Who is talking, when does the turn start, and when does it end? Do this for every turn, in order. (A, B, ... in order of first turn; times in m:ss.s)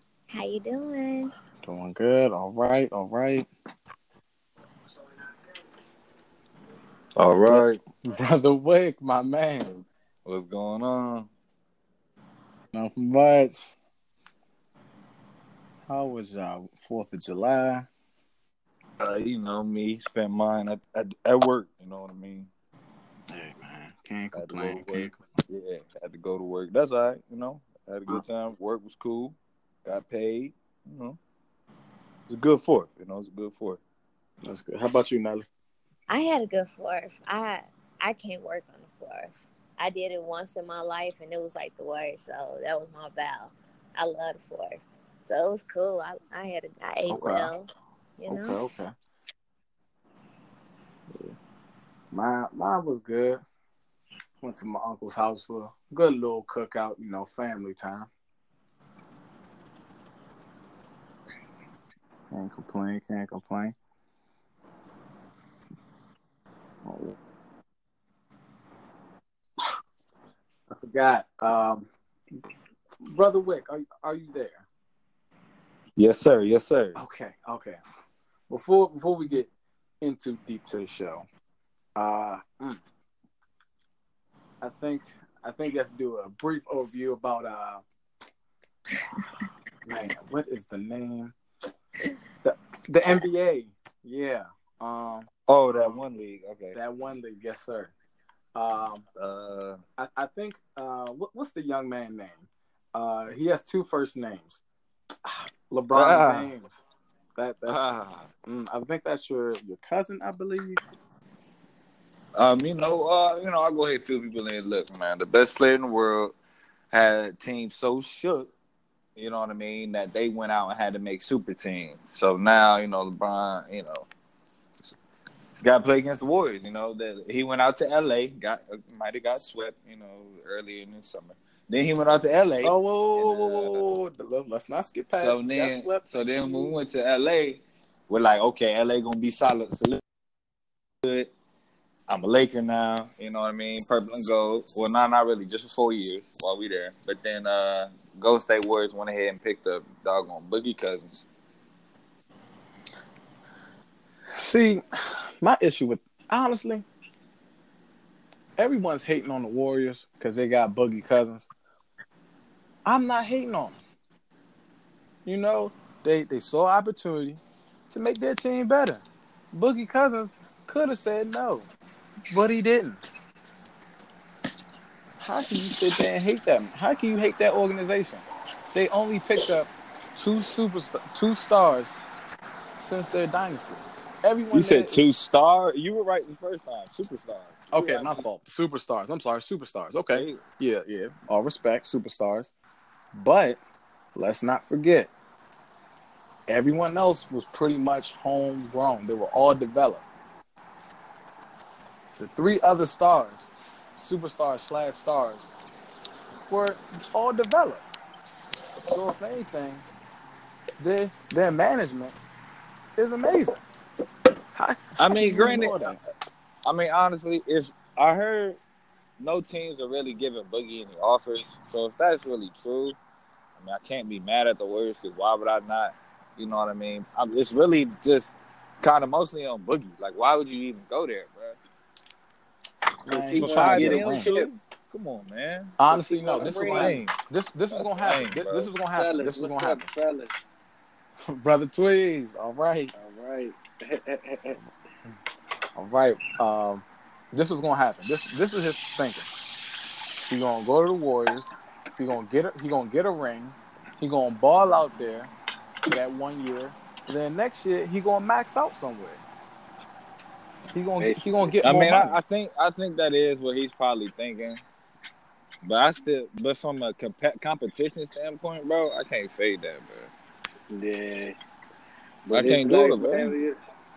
0:00.3-0:01.3 A
0:01.6-0:03.5 B
0:07.2-0:07.8 C
0:07.5-0:09.8 B
0:09.7-0:11.3 C
0:12.7-0:13.7 B
0:15.9-0:17.9 B
0:19.0-0:22.5 C
0:23.3-0:25.2 B
0:24.3-0:31.2 C
0:32.3-0:33.8 C
0:34.4-0:35.5 B
0:36.1-0:48.6 A
0:47.1-0:47.5 B
0:48.3-0:48.9 B
0:51.1-0:51.3 B
0:52.1-0:53.4 B
0:54.4-0:58.1 B
1:02.3-1:03.8 B
1:06.8-1:07.2 B
1:10.7-1:12.4 B
1:13.0-1:14.6 B
1:16.0-1:17.0 C
1:17.0-1:17.8 B
1:18.5-1:19.5 B
1:20.0-1:21.2 B
1:22.0-1:22.8 B
1:24.6-1:27.8 B
1:29.8-1:31.4 B
1:32.4-1:36.0 B
1:35.5-1:36.8 C
1:36.7-1:37.9 B
1:38.5-1:39.0 B
1:39.2-1:39.8 C
1:40.0-1:44.6 B
1:45.2-1:46.8 B
1:45.9-1:46.5 C
1:47.4-1:47.8 B
1:47.7-1:48.3 C
1:48.5-1:50.8 B
1:52.3-1:56.3 C
1:56.9-1:58.5 C
1:59.2-2:04.1 C
2:05.6-2:13.8 C
2:12.6-2:15.4 B
2:15.1-2:20.0 C
2:15.5-2:16.7 D
2:21.0-2:21.3 C
2:22.1-2:31.2 C
2:34.4-2:34.8 B
2:35.4-2:36.8 B
2:38.6-2:41.5 B
2:42.8-2:43.8 B
2:45.2-2:51.7 B
2:52.3-2:53.0 B
2:55.2-3:02.0 B
3:02.8-3:05.1 B
3:04.5-3:07.6 C
3:07.7-3:12.5 B
3:07.7-3:08.2 D
3:10.1-3:10.4 C
3:13.1-3:13.6 B
3:14.1-3:15.1 B
3:16.5-3:20.0 B
3:22.2-3:25.5 B
3:26.4-3:27.8 B
3:28.9-3:29.8 B
3:30.8-3:32.2 B
3:33.0-3:33.6 B
3:34.5-3:36.0 B
3:35.0-3:35.8 C
3:36.6-3:38.6 C
3:39.2-3:43.0 C
3:43.6-3:51.6 C
3:53.0-3:54.3 B
3:53.0-3:54.5 D
3:53.3-3:55.8 C
3:55.8-3:59.9 B
3:55.9-3:57.0 D
3:56.4-3:57.2 C
3:57.7-3:58.7 C
3:58.9-4:00.3 D
4:01.3-4:02.9 B
4:02.9-4:04.6 D
4:05.8-4:09.3 B
4:10.3-4:15.3 B
4:15.8-4:19.2 B
4:20.7-4:22.2 B
4:21.0-4:21.6 D
4:21.6-4:24.6 C
4:25.6-4:30.1 C
4:30.7-4:31.3 D
4:32.2-4:33.6 D
4:32.3-4:33.3 C